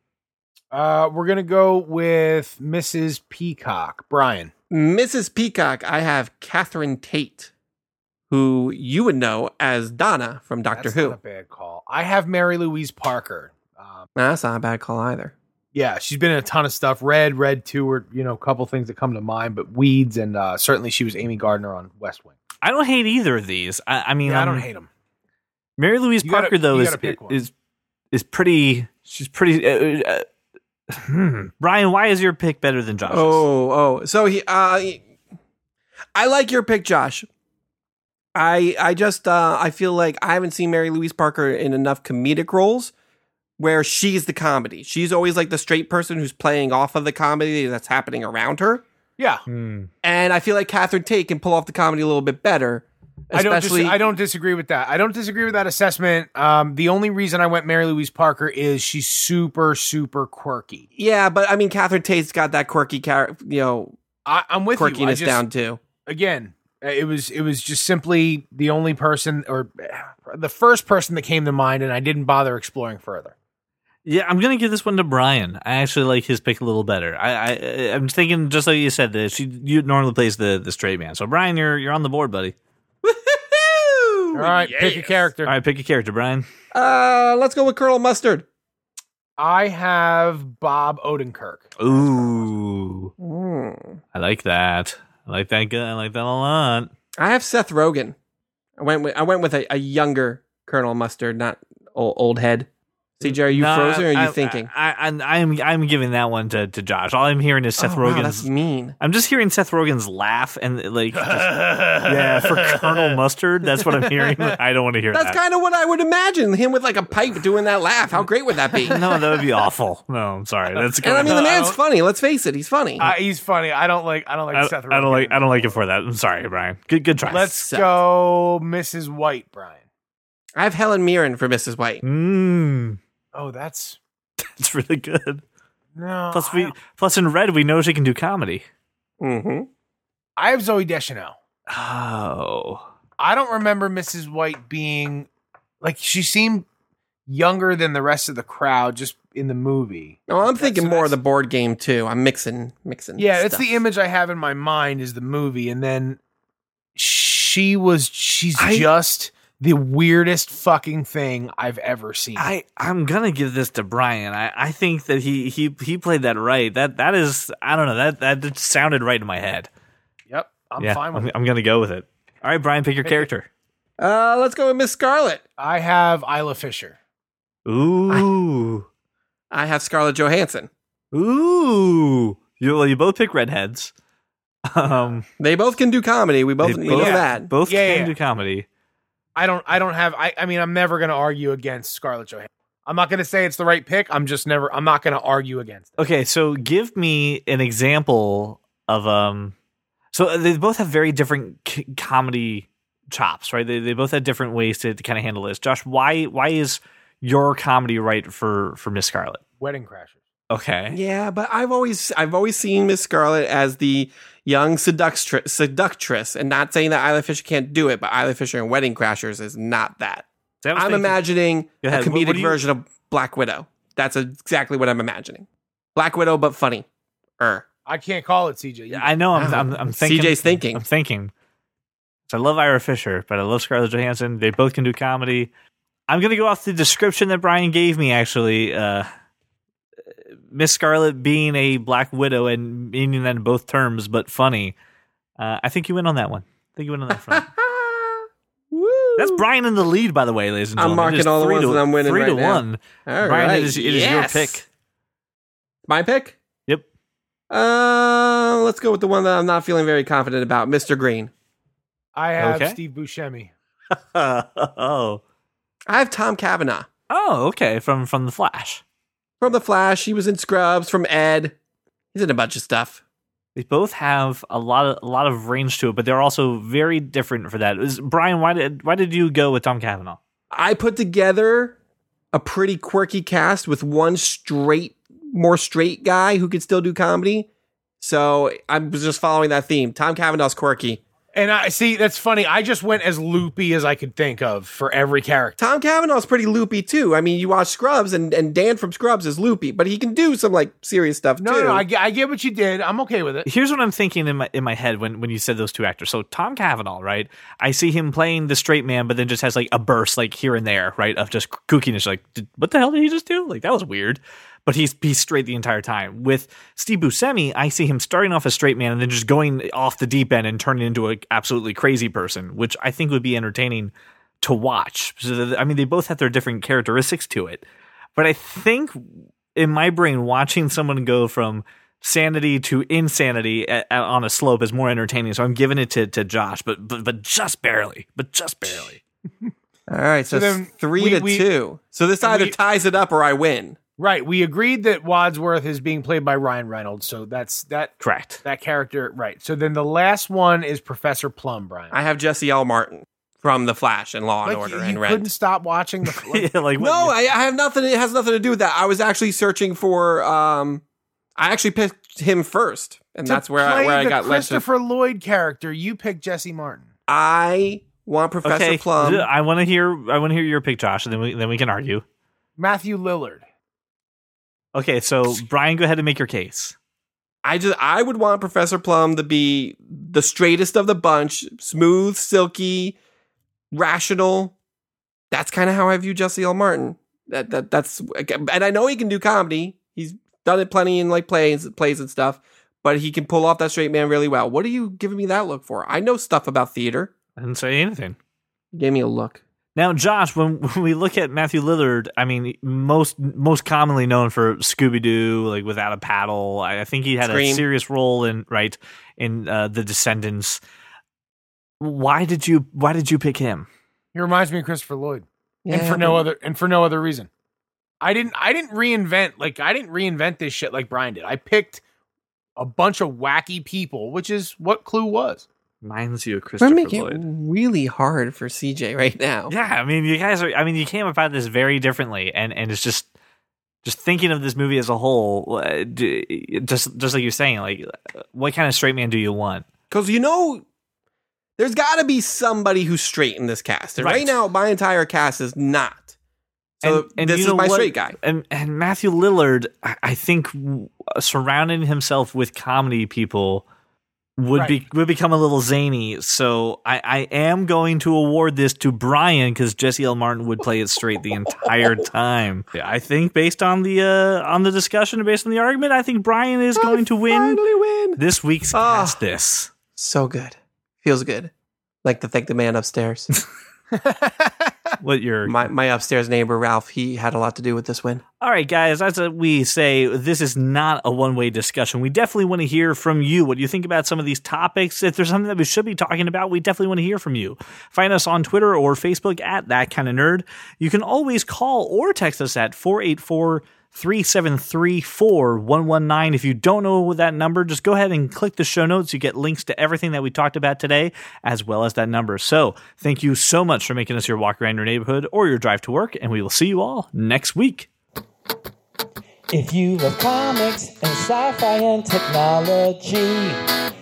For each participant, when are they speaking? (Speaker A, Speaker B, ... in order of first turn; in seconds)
Speaker A: 0.7-4.5, 10.7-14.1, 15.7-22.3, 24.2-24.9, 26.2-27.4, 49.2-49.4, 53.3-60.9, 64.2-65.4, 66.0-73.3, 84.3-85.5, 89.4-92.4, 111.1-113.2, 113.8-114.6, 118.7-119.2, 121.2-121.8, 123.0-125.7, 127.3-129.8, 133.3-134.0, 135.9-136.7, 140.4-141.4, 143.2-145.3, 145.8-146.7, 147.3-151.2, 153.2-156.2, 157.0-162.5, 170.3-171.3, 173.0-173.3, 175.6-177.0, 186.9-188.1, 189.4-196.0, 209.6-210.2, 227.9-229.1, 262.1-263.5, 291.3-295.6, 301.4-303.5, 340.3-341.5, 342.2-342.6, 344.0-351.9, 354.4-356.5, 363.3-366.9, 372.6-373.4, 414.1-417.3, 418.0-421.8, 422.6-425.5, 473.9-475.0
Speaker B: 4.7-7.5, 8.3-11.2, 14.2-15.3, 33.1-35.0, 36.1-37.3, 38.4-42.9, 43.6-48.8, 50.0-54.0, 61.0-64.0, 64.8-65.8, 83.0-85.3, 86.7-88.5, 93.2-94.0, 97.2-98.1, 98.8-102.7, 103.2-104.7, 107.8-109.0, 115.1-119.0, 121.0-123.0, 127.6-128.0, 130.6-132.0, 139.2-139.7, 150.3-153.8, 174.0-175.4, 179.5-180.7, 185.4-187.5, 210.9-226.9, 227.4-227.6, 229.3-230.8, 247.3-249.4, 250.8-254.6, 255.9-256.4, 257.5-261.3, 265.9-266.9, 269.4-271.6, 272.1-273.0, 280.5-281.8, 282.3-287.5, 288.0-291.0, 295.6-301.9, 339.9-343.8, 351.9-355.3, 356.8-360.8, 361.4-364.6, 367.1-369.3, 377.4-383.0, 383.7-384.5, 385.3-397.1, 398.7-399.4, 407.2-407.6, 415.6-416.3, 426.6-429.5, 439.9-440.6, 441.6-446.1, 446.8-448.2, 466.8-468.2, 468.7-469.2, 470.0-471.5, 472.0-473.3, 475.5-478.2
Speaker C: 22.6-24.7, 25.8-27.5, 28.1-30.2, 30.9-33.5, 49.5-49.9, 74.0-82.5, 85.5-86.5, 91.8-93.1, 94.1-96.9, 103.2-108.5, 109.0-115.4, 118.8-121.4, 124.5-127.6, 132.0-133.0, 134.4-135.4, 136.3-138.7, 141.7-142.9, 158.6-158.9, 162.4-169.7, 170.8-173.5, 177.7-178.9, 181.1-183.9, 184.7-185.2, 186.6-188.7, 196.0-199.6, 200.1-209.4, 210.5-211.0, 220.6-221.2, 221.8-222.6, 228.9-231.3, 232.3-235.5, 236.1-239.1, 240.5-244.8, 245.4-247.5, 249.2-254.7, 262.4-262.8, 263.9-265.2, 267.1-268.8, 273.6-280.2, 303.5-327.6, 328.2-339.0, 348.0-348.4, 356.1-357.1, 368.4-372.1, 374.8-376.8, 397.4-398.2, 399.8-410.6, 411.8-413.7, 425.8-427.2, 429.5-433.1, 433.8-439.7, 444.0-444.4, 446.8-453.6, 454.4-467.6, 468.2-469.7, 475.0-475.6, 478.4-507.9
Speaker D: 509.5-513.6